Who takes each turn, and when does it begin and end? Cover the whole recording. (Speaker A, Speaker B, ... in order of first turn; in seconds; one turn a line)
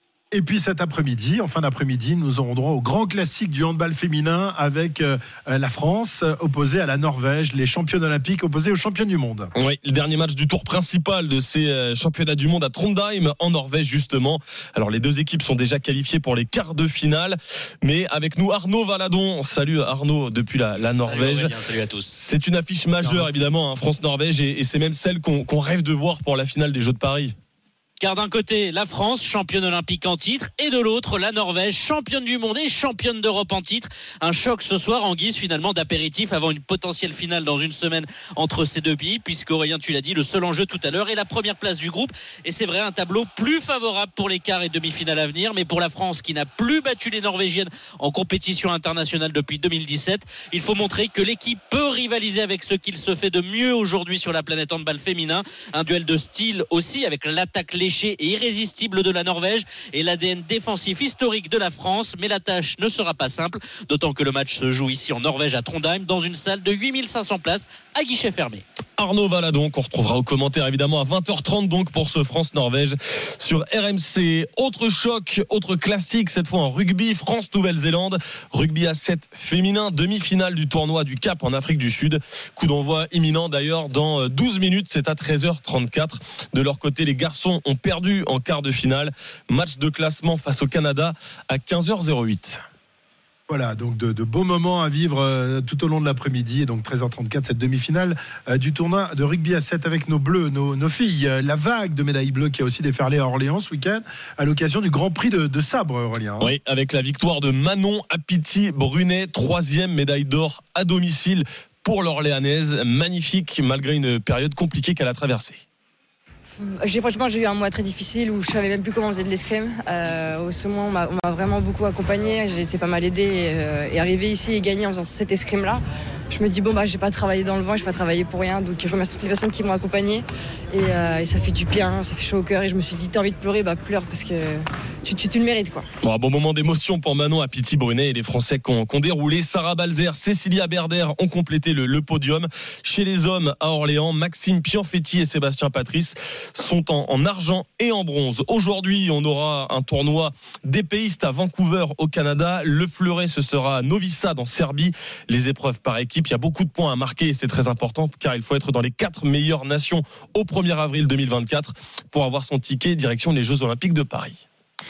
Speaker A: 0.3-9.5
Speaker B: 9.6-21.6
Speaker C: 20.8-22.1
Speaker B: 22.1-27.3
Speaker A: 23.0-23.3
Speaker C: 28.0-68.6
Speaker B: 69.0-92.6
Speaker A: 93.5-106.5
Speaker B: 106.4-115.6
Speaker D: 116.6-135.9
Speaker B: 136.0-164.4